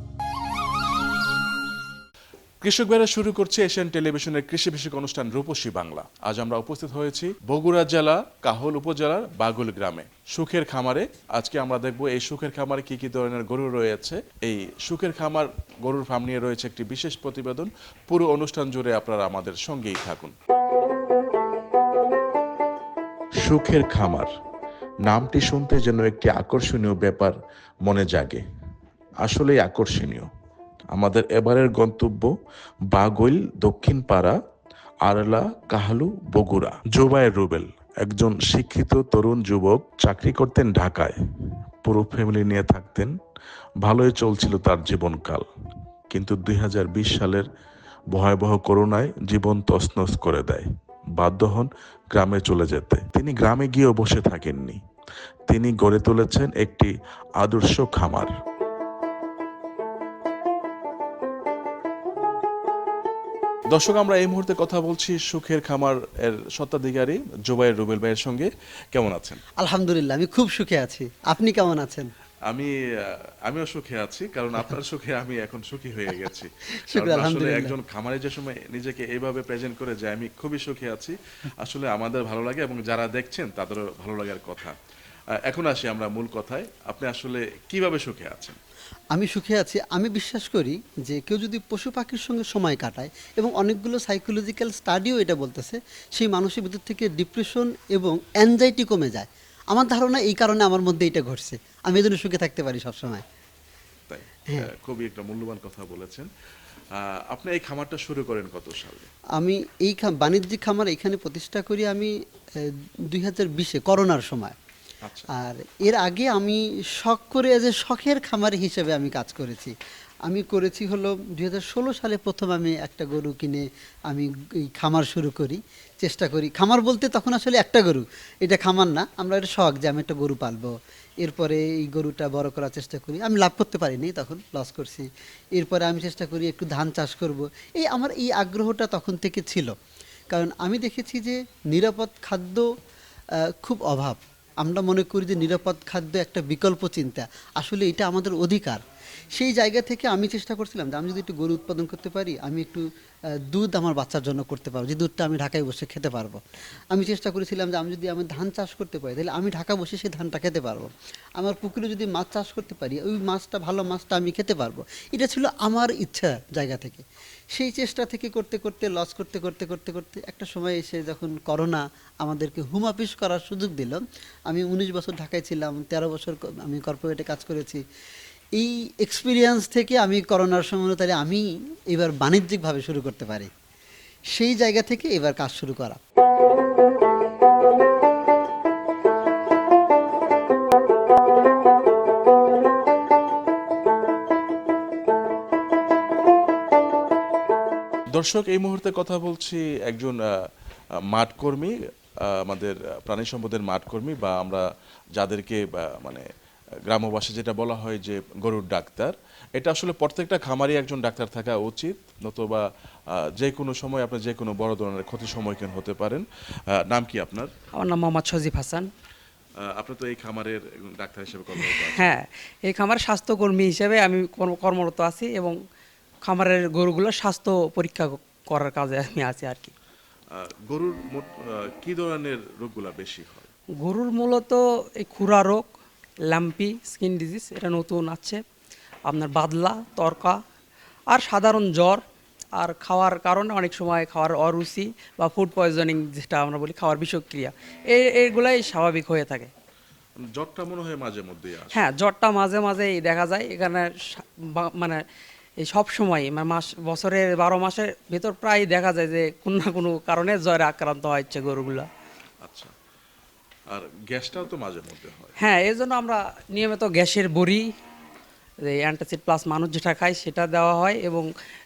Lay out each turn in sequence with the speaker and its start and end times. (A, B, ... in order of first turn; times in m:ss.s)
0:02.6-0:20.3 A
0:23.4-0:24.3 A
0:25.1-0:27.3 A
0:27.8-0:28.4 A
0:29.2-0:30.3 A
0:30.9-0:32.2 A
0:32.9-0:34.3 A
0:35.0-0:41.2 A
0:41.8-0:43.1 A
0:43.8-0:45.4 A
0:46.1-0:47.5 A
0:48.1-0:50.6 A
0:51.2-0:54.8 A
0:55.5-0:56.9 A
0:57.4-0:58.3 A
1:03.7-1:09.4 A
1:09.6-1:12.1 B
1:13.4-1:24.7 A
1:16.8-1:17.8 B
1:25.5-1:28.6 A
1:29.1-1:43.2 B
1:44.1-1:46.3 A
1:47.0-1:49.1 A
1:49.4-1:54.5 B
1:55.0-1:55.3 A
1:55.3-1:59.7 B
2:00.2-2:19.7 B
2:20.3-2:22.7 B
2:23.4-2:32.8 B
2:33.5-2:57.8 B
2:58.6-3:03.5 B
3:04.3-3:06.0 B
3:18.1-3:20.2 A
3:21.1-3:21.7 A
3:22.3-3:24.6 A
3:25.2-3:26.2 A
3:26.9-3:32.6 A
3:33.4-3:36.2 A
3:36.8-3:37.5 A
3:37.7-3:38.9 C
3:39.7-3:42.2 A
3:41.5-3:45.6 C
3:46.2-3:49.7 C
3:50.4-3:53.5 A
3:53.8-3:55.7 C
3:56.3-3:58.4 C
3:59.1-4:00.4 C
4:01.1-4:02.0 C
4:02.6-4:09.5 C
4:10.2-4:11.8 A
4:11.7-4:15.0 C
4:15.6-4:21.9 C
4:22.4-4:22.7 A
4:23.7-4:25.3 A
4:25.4-4:27.7 C
4:28.7-4:31.3 C